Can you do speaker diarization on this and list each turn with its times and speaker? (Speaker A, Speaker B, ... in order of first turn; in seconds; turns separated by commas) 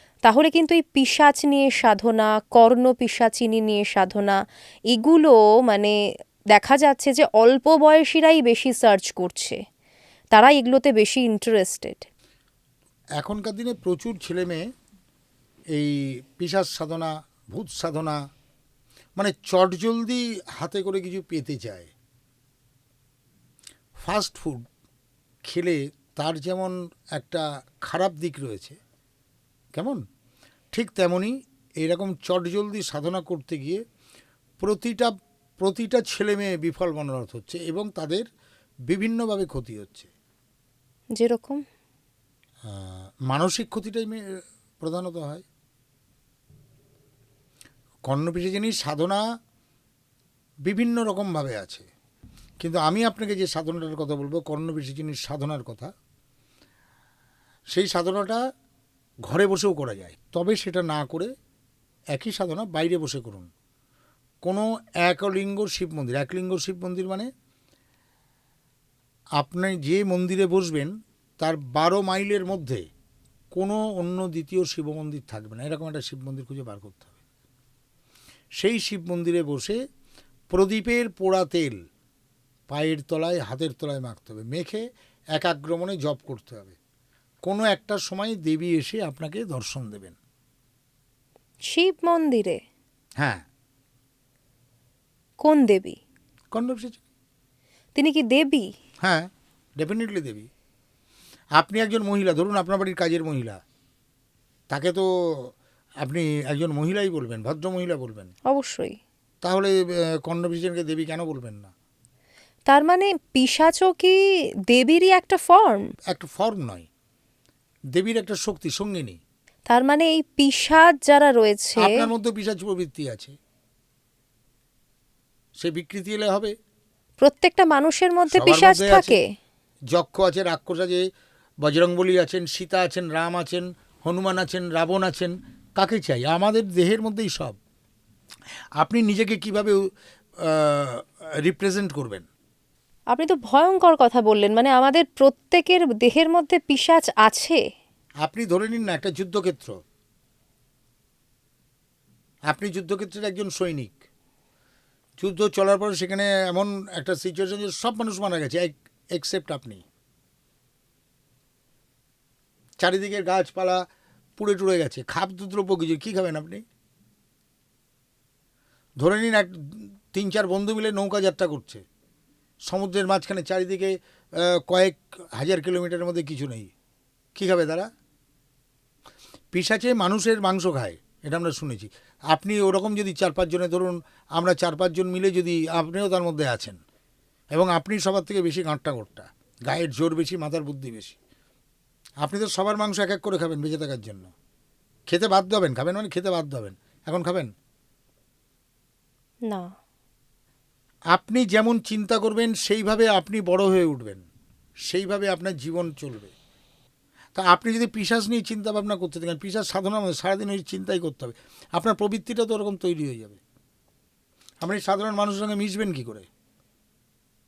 Speaker A: 0.2-4.4, Speaker A: 4.9-6.0, Speaker A: 6.5-9.6, Speaker A: 10.3-12.1, Speaker B: 13.2-14.7, Speaker B: 15.8-18.2, Speaker B: 19.2-21.9, Speaker B: 24.0-24.6, Speaker B: 25.5-28.8, Speaker B: 29.8-30.0, Speaker B: 30.7-33.8, Speaker B: 34.6-38.3, Speaker B: 38.9-40.1, Speaker A: 41.2-41.6, Speaker B: 42.7-44.2, Speaker B: 44.8-45.5, Speaker B: 48.1-49.2, Speaker B: 50.7-51.9, Speaker B: 52.6-55.9, Speaker B: 57.7-58.4, Speaker B: 59.3-61.3, Speaker B: 62.1-63.5, Speaker B: 64.4-67.3, Speaker B: 69.4-72.8, Speaker B: 73.5-77.2, Speaker B: 78.6-79.8, Speaker B: 80.5-81.8, Speaker B: 82.7-84.8, Speaker B: 85.4-86.8, Speaker B: 87.5-90.2, Speaker A: 91.7-92.6, Speaker B: 93.2-93.4, Speaker A: 95.4-96.0, Speaker B: 96.5-97.0, Speaker A: 98.0-98.7, Speaker B: 99.8-100.5, Speaker B: 101.6-103.6, Speaker B: 104.7-108.3, Speaker A: 108.5-109.0, Speaker B: 109.4-111.7, Speaker A: 112.7-114.2, Speaker A: 114.7-115.9, Speaker B: 116.1-116.9, Speaker B: 118.0-119.2, Speaker A: 119.7-122.1, Speaker B: 121.8-123.3, Speaker B: 125.6-126.5, Speaker A: 127.2-129.2, Speaker B: 128.3-129.2, Speaker B: 129.9-131.1, Speaker B: 131.6-137.6, Speaker B: 138.8-139.9, Speaker B: 140.4-142.3, Speaker A: 143.1-147.6, Speaker B: 148.2-149.7, Speaker B: 152.5-154.0, Speaker B: 155.2-159.8, Speaker B: 162.8-163.8, Speaker B: 164.4-166.6, Speaker B: 169.0-171.8, Speaker B: 172.7-176.7, Speaker B: 177.4-177.9, Speaker B: 179.5-186.8, Speaker B: 187.5-191.2, Speaker B: 192.2-194.3, Speaker B: 195.1-197.5, Speaker B: 201.1-204.2, Speaker B: 204.9-206.3, Speaker B: 207.3-213.4, Speaker B: 214.6-216.3